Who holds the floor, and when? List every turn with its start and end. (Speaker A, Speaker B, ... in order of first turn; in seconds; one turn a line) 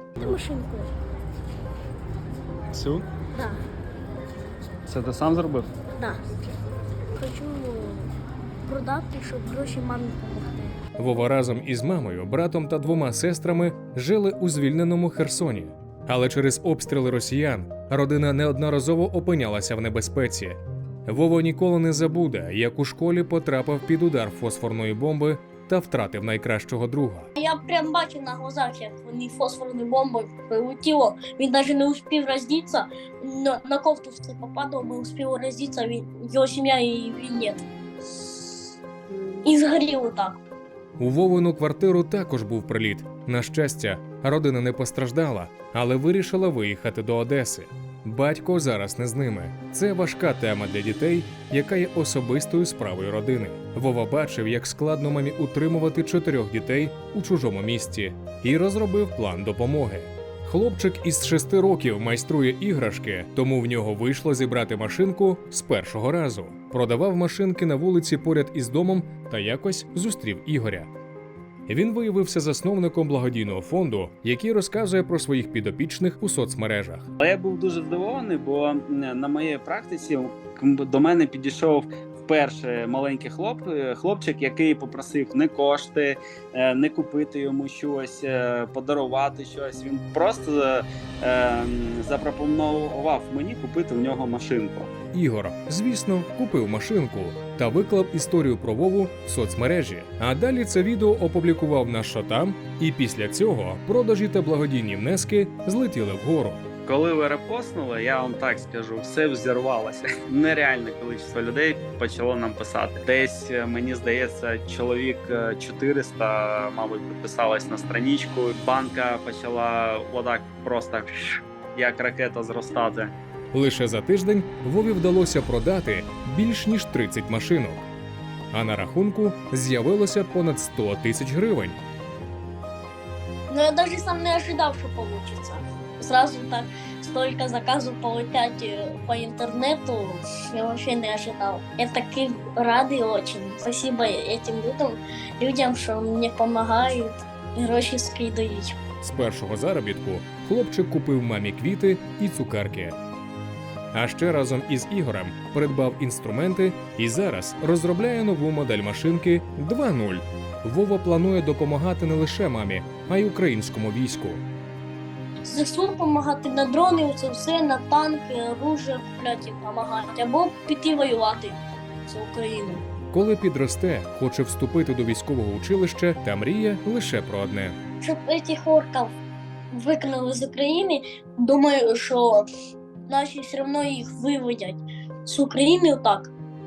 Speaker A: 0.1-0.9
Speaker B: 2.7-3.0
Speaker B: 4.9-5.7
Speaker A: 7.2-8.1
Speaker A: 8.7-10.8
Speaker C: 11.0-27.3
Speaker A: 27.4-37.6
Speaker A: 38.2-38.5
Speaker A: 39.4-40.4
Speaker C: 41.0-70.9
Speaker C: 71.7-77.1
Speaker B: 77.2-94.9
Speaker C: 95.1-106.6
Speaker B: 106.8-123.1
Speaker C: 123.5-127.8
Speaker C: 128.5-131.8
Speaker A: 133.5-148.8
Speaker C: 149.0-153.0
Speaker C: 153.9-164.4
Speaker A: 165.4-172.8
Speaker C: 173.1-177.8
Speaker A: 178.0-179.2
Speaker A: 179.7-182.5
Speaker A: 183.1-186.3